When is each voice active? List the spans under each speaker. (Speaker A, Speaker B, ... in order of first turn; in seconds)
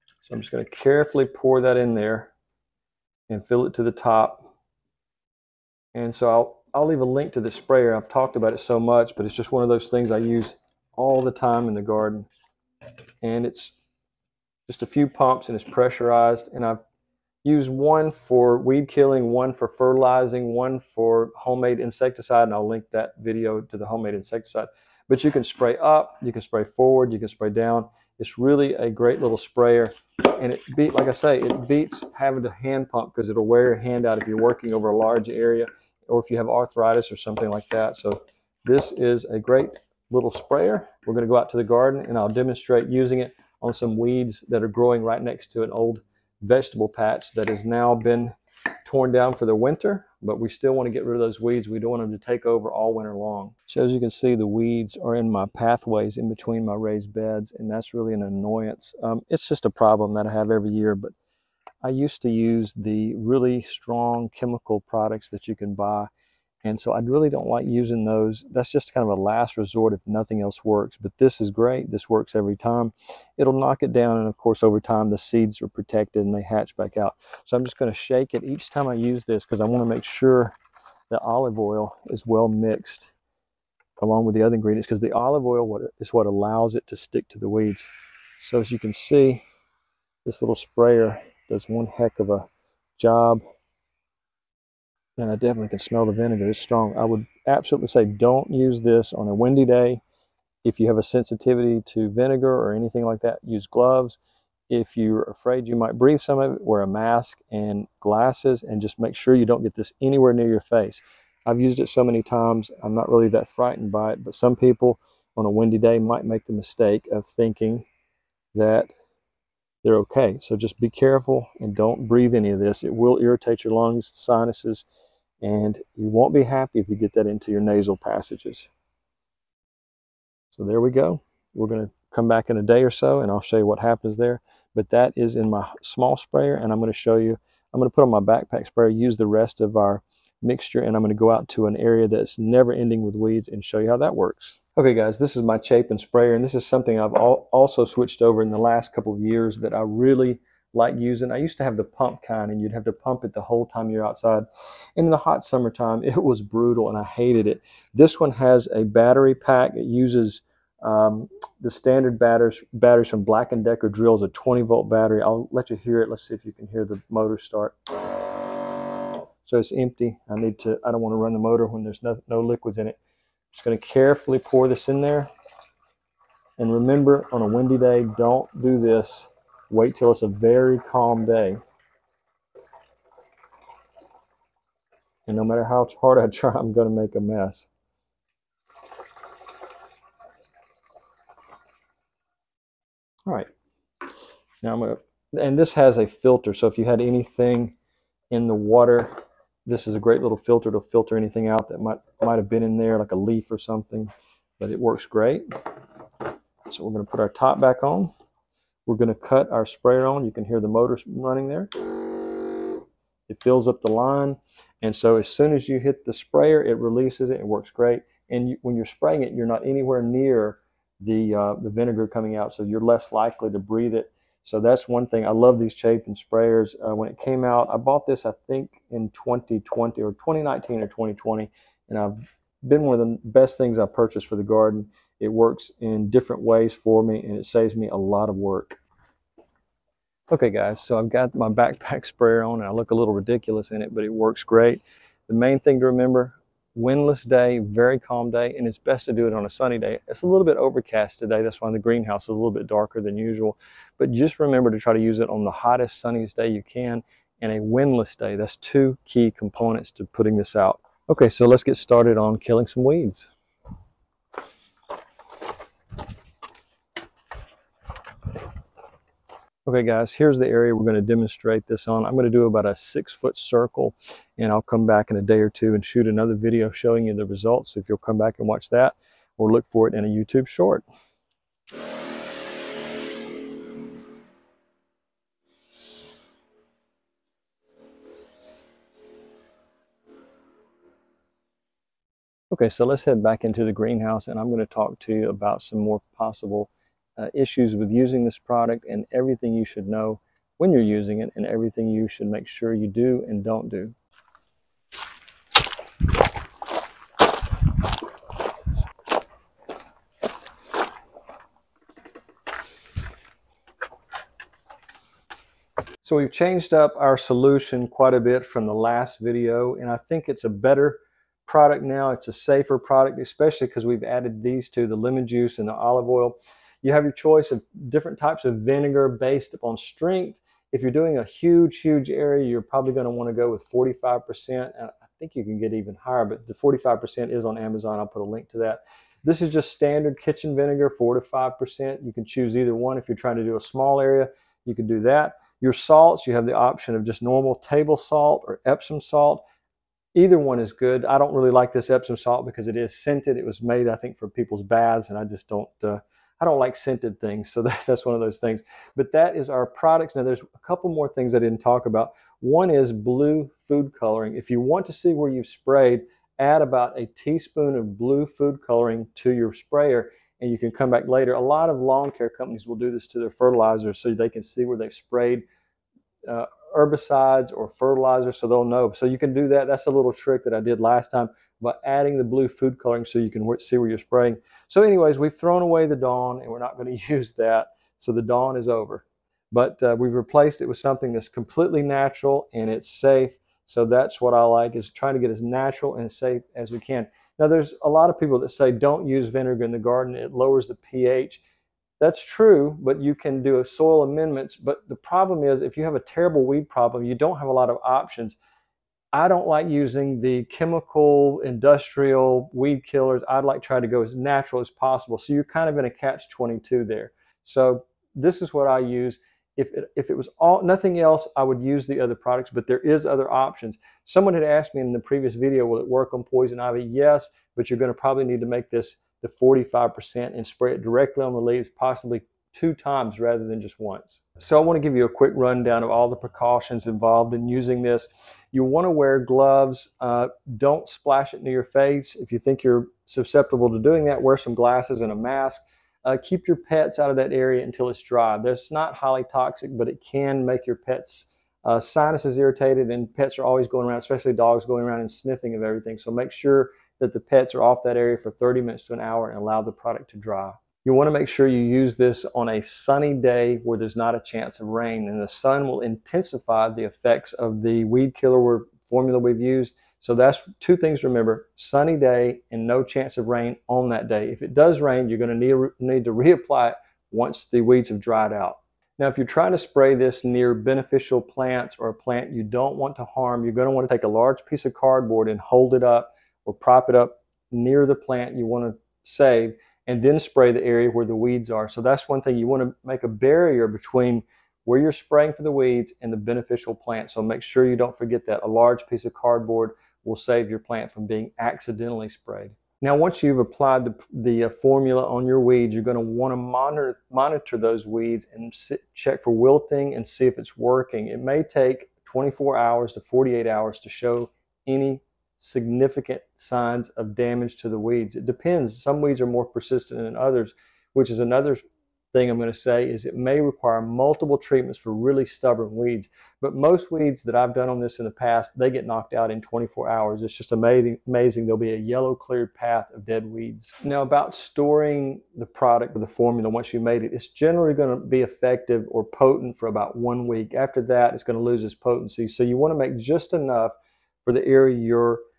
Speaker A: 0.2-2.3, 3.3-4.5, 5.9-12.3, 13.2-13.8, 14.7-16.8, 17.4-61.1, 61.8-66.1, 66.6-80.5, 81.1-83.1, 84.0-89.4, 90.2-93.4, 95.2-100.0, 100.6-117.9, 118.5-118.9, 119.8-124.8, 125.4-128.7, 130.5-154.4, 155.0-167.8, 169.4-173.0, 173.5-175.3, 176.6-181.6, 185.2-187.7, 194.6-197.7, 198.3-205.4, 206.7-208.1, 208.9-211.7, 213.3-238.8, 240.3-263.3, 269.6-280.9, 292.5-303.9, 316.0-349.4, 350.1-375.4, 376.2-401.4, 402.0-408.4, 409.1-521.6, 522.1-543.7, 544.2-545.2